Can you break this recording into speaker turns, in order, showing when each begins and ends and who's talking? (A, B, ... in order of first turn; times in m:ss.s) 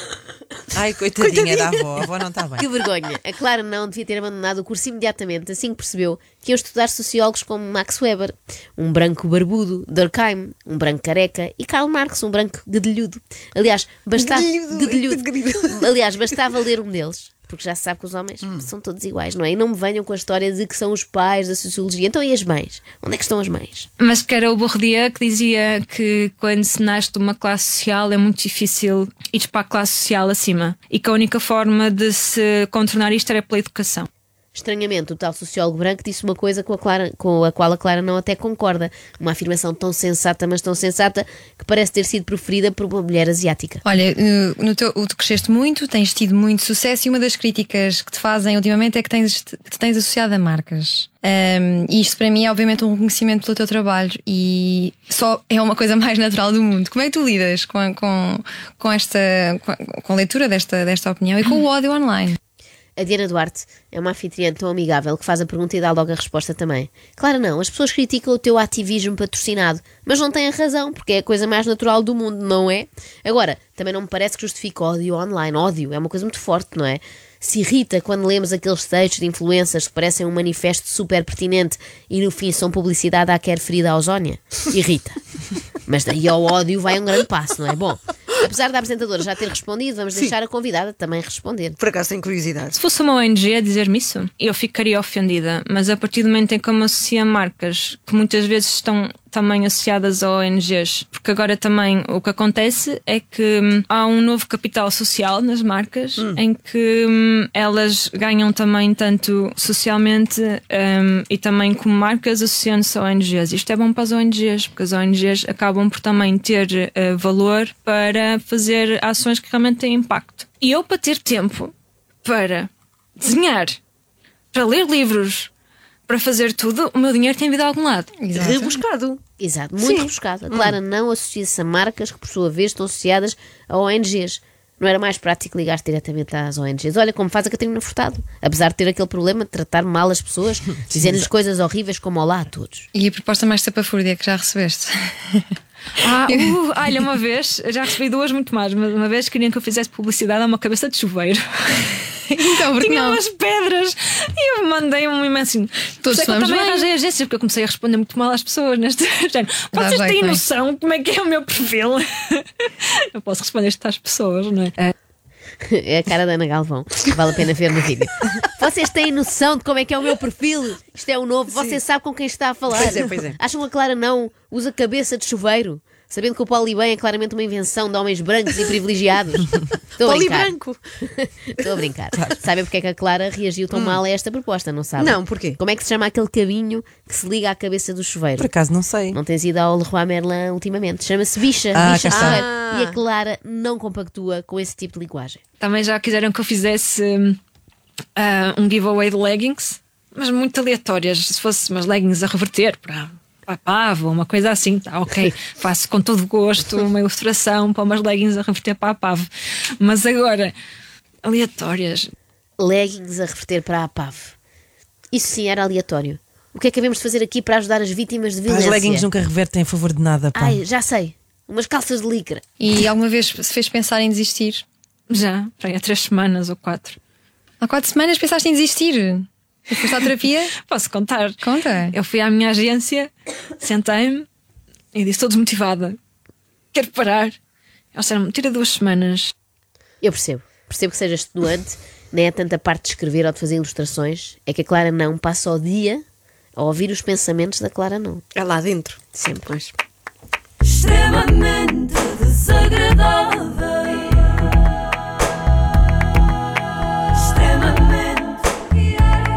0:00.7-0:02.7 A
0:02.6-0:23.9 B
0:14.2-0:15.9 C
0:24.0-0:34.1 D
0:34.5-0:43.8 B
0:43.8-1:02.4 E
1:03.0-1:25.2 B
1:25.9-1:31.8 B
1:31.8-1:32.8 C
1:32.8-2:01.7 D
2:02.2-2:03.8 D
2:04.5-2:05.5 D
2:06.1-2:08.1 D
2:08.2-2:08.8 E
2:08.4-2:09.2 C
2:09.4-2:22.9 B
2:09.8-2:10.7 C
2:22.9-2:25.4 E
2:26.0-2:31.9 D
2:26.3-2:26.5 E
2:32.3-2:33.2 E
2:32.8-2:44.9 D
2:36.0-2:36.9 E
2:39.7-2:40.4 E
2:45.7-3:00.6 B
2:51.5-2:51.8 C
2:52.7-2:53.4 C
3:00.0-3:00.8 C
3:01.1-3:08.5 B
3:03.7-3:04.0 C
3:05.0-3:05.6 C
3:08.4-3:09.2 A
3:09.1-3:15.4 B
3:11.7-3:12.4 A
3:12.1-3:13.0 C
3:15.6-3:17.4 D
3:18.2-3:29.3 D
3:29.8-3:30.5 D
3:31.2-3:32.1 D
3:32.6-3:34.3 B
3:35.1-3:39.1 B
3:38.5-3:40.6 A
3:40.4-3:42.4 B
3:42.6-3:44.6 E
3:45.1-3:47.0 D
3:47.6-3:50.5 E
3:50.6-3:54.3 D
3:51.4-3:52.0 E
3:54.9-3:56.0 D
3:56.7-3:57.4 D
3:57.9-3:59.3 D
4:00.0-4:06.0 B
4:06.6-4:08.2 B
4:08.4-4:09.7 C
4:09.1-4:09.5 B